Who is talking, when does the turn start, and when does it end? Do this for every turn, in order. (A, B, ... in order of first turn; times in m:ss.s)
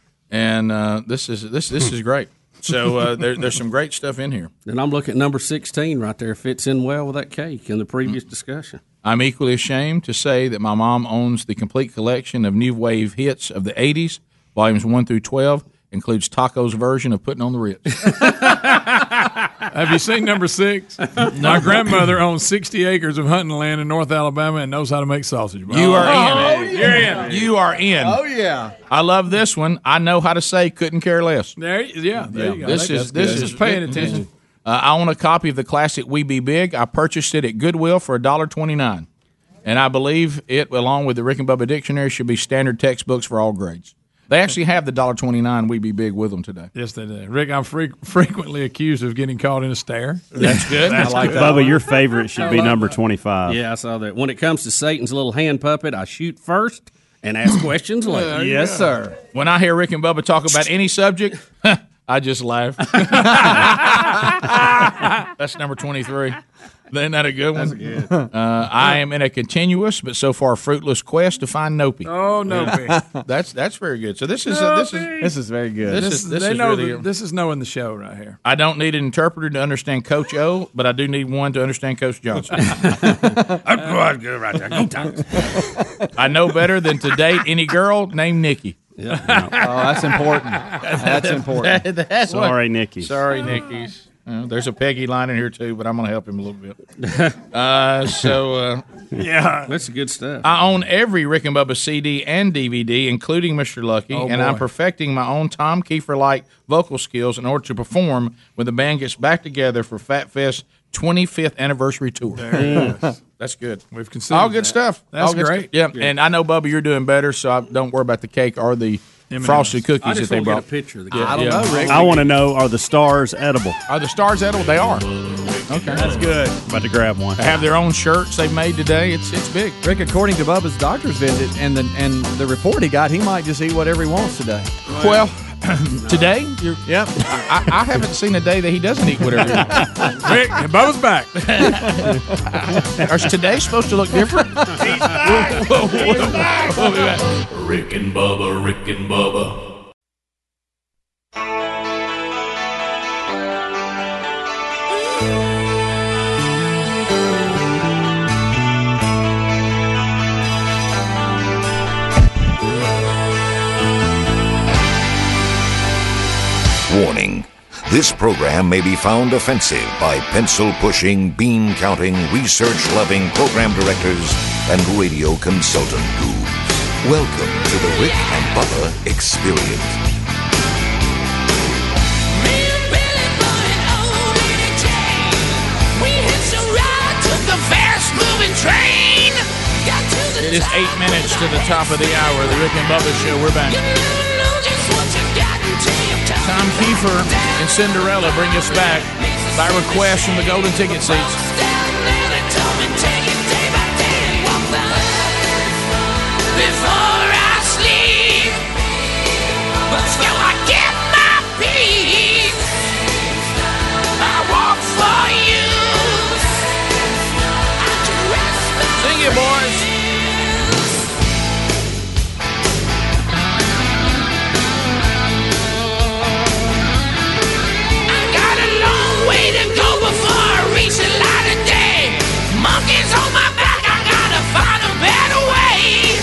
0:00.3-0:04.5 A
0:04.7-0:08.8 B
0:09.0-0:18.2 A
0:18.7-0:19.0 C
0:19.7-0:27.4 C
0:21.4-0:21.6 A
0:25.7-0:28.2 A
0:25.9-0:28.8 D
0:28.9-0:31.6 A
0:31.6-0:34.3 C
0:32.3-0:34.2 D
0:32.6-0:39.1 A
0:39.6-0:46.7 A
0:46.8-0:51.7 C
0:50.4-0:51.6 A
0:50.9-0:51.8 D
0:51.2-0:53.6 E
0:52.4-0:52.8 D
0:53.5-0:58.4 B
0:58.2-0:59.2 D
0:58.4-0:58.9 C
0:58.4-0:58.7 E
0:59.3-1:04.6 A
1:05.4-1:06.4 A
1:06.9-1:12.1 A
1:07.6-1:08.3 D
1:12.0-1:13.0 C
1:12.5-1:13.2 D
1:13.2-1:15.3 A
1:14.5-1:15.1 C
1:15.2-1:16.1 D
1:15.9-1:17.1 A
1:15.9-1:18.4 C
1:18.4-1:22.6 A
1:22.6-1:23.4 B
1:23.6-1:24.8 C
1:24.0-1:25.2 B
1:25.4-1:25.6 D
1:26.2-1:28.8 A
1:29.0-1:29.6 B
1:29.5-1:31.8 D
1:30.8-1:36.8 A
1:32.3-1:33.2 E
1:37.0-1:37.4 B
1:37.5-1:38.8 A
1:39.1-1:39.7 C
1:39.7-1:40.5 B
1:40.4-1:52.8 A
1:44.1-1:44.6 C
1:52.4-1:53.1 C
1:52.6-1:52.9 B
1:52.7-1:53.0 D
1:53.4-2:02.0 A
1:53.9-1:55.7 C
1:59.3-1:59.8 C
2:00.0-2:02.3 B
2:01.1-2:02.2 D
2:01.9-2:03.8 E
2:03.9-2:05.1 A
2:04.8-2:06.3 F
2:05.7-2:06.1 A
2:06.0-2:06.6 D
2:06.5-2:07.4 E
2:07.4-2:09.8 A
2:09.8-2:14.7 D
2:14.9-2:19.9 A
2:14.9-2:15.3 B
2:16.8-2:17.1 D
2:20.1-2:21.4 C
2:21.4-2:27.2 A
2:27.4-2:29.6 F
2:46.9-3:00.0 G
3:02.9-3:05.0 H
3:06.0-3:07.5 H
3:08.1-3:08.4 H
3:10.4-3:13.8 A
3:15.4-3:15.9 H
3:16.4-3:21.4 A
3:21.8-3:23.3 H
3:30.4-3:31.7 H
3:34.4-3:35.3 A
3:38.0-3:38.9 H
3:38.9-3:39.9 A
3:48.3-3:55.5 H